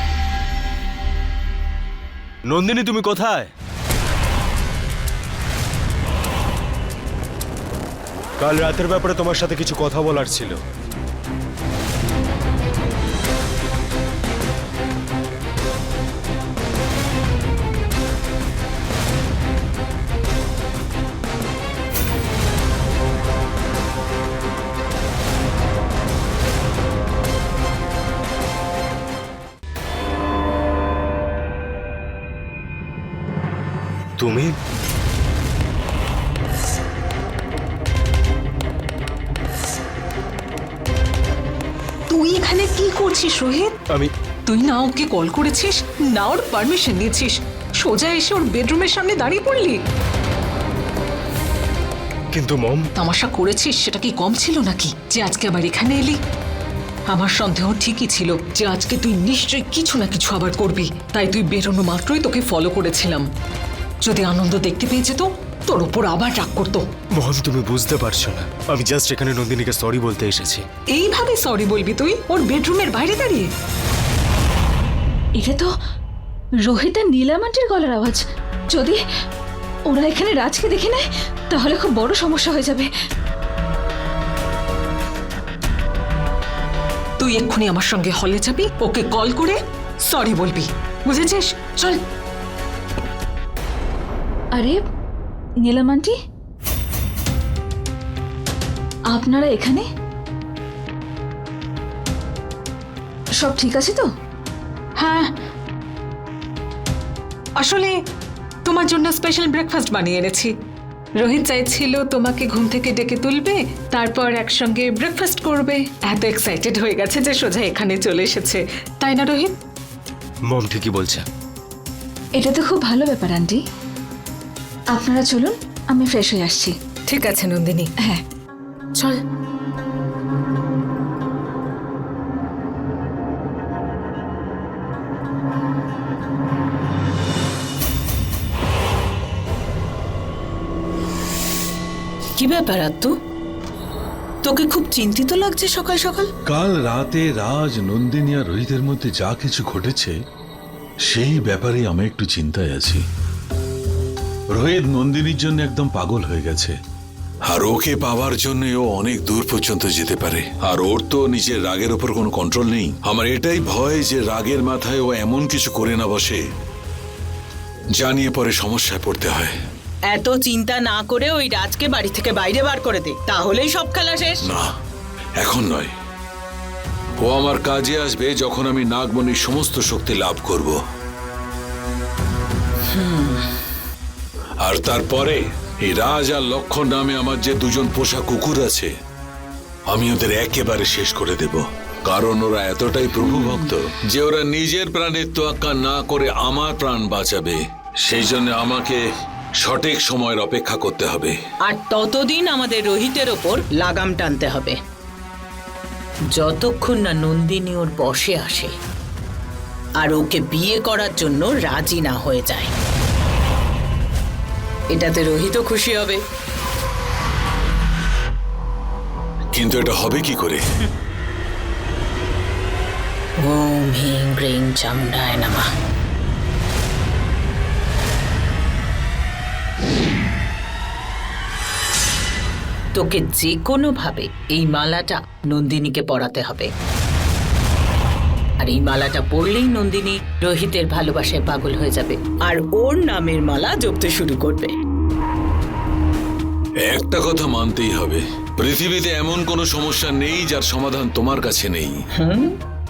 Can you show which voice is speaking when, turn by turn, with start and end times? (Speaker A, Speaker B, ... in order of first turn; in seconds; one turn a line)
Speaker A: 2.5-3.5
Speaker A: 8.4-10.6
Speaker A: 34.2-34.5
Speaker B: 42.1-43.7
Speaker B: 44.5-49.8
Speaker A: 52.3-52.9
Speaker B: 53.0-56.2
Speaker B: 57.1-63.2
Speaker B: 64.0-66.8
Speaker A: 67.2-70.7
Speaker B: 70.9-73.5
Speaker C: 75.4-75.7
Speaker C: 76.7-79.0
Speaker C: 79.9-82.9
Speaker B: 87.2-92.0
Speaker C: 94.5-94.8
Speaker C: 95.6-96.2
Speaker C: 99.1-99.9
Speaker C: 103.4-104.1
Speaker B: 105.0-105.3
Speaker B: 107.6-108.0
Speaker B: 108.7-110.5
Speaker B: 111.2-119.5
Speaker A: 120.5-121.2
Speaker C: 122.4-123.6
Speaker C: 124.9-126.7
Speaker B: 127.1-127.9
Speaker B: 128.9-129.2
Speaker D: 142.4-143.1
Speaker D: 144.4-146.3
Speaker E: 146.5-150.1
Speaker E: 151.1-153.0
Speaker E: 154.5-156.7
Speaker E: 157.5-166.4
Speaker E: 167.9-169.5
Speaker D: 170.1-174.4
Speaker E: 175.4-175.9
Speaker E: 177.2-180.8
Speaker D: 182.9-183.4
Speaker E: 184.6-188.9
Speaker E: 189.9-199.0
Speaker D: 193.2-193.6
Speaker E: 199.6-201.4
Speaker D: 201.7-204.8
Speaker D: 206.3-208.7
Speaker D: 210.0-212.7
Speaker D: 214.9-216.2
Speaker E: 219.5-220.6
Speaker D: 223.4-225.7
Speaker D: 232.9-236.7
Speaker D: 238.6-244.7
Speaker E: 246.8-252.0
Speaker D: 252.2-252.6